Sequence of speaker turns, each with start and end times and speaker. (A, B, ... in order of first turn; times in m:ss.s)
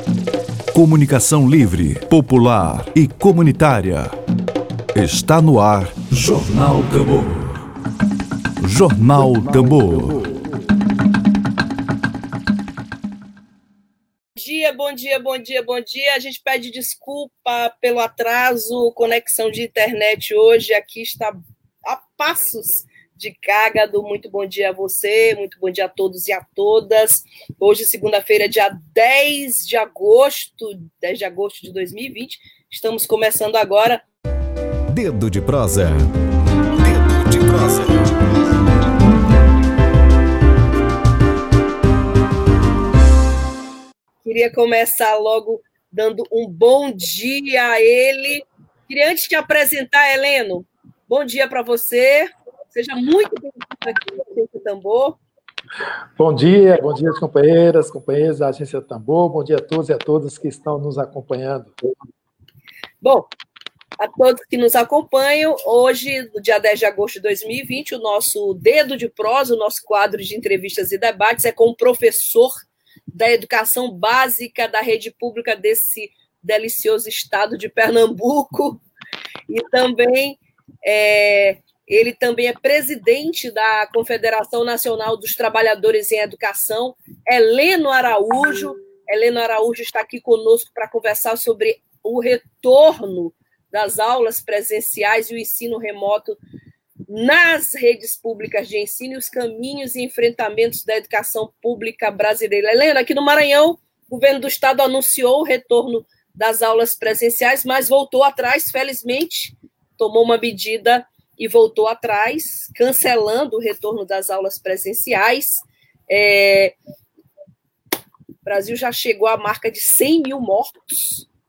0:00.7-0:04.2 A
0:04.9-0:07.6 A
0:08.6-0:10.5 A
0:14.4-0:34.0 B
0:34.9-0:36.1 A
0:36.7-0:38.1 A
0:44.2-0:55.2 B
0:56.2-1:01.7 C
1:03.0-1:03.3 B
1:04.0-1:12.6 B
1:13.1-1:18.8 B
1:19.5-1:36.4 B
1:37.1-1:56.7 B
1:58.4-2:01.3 B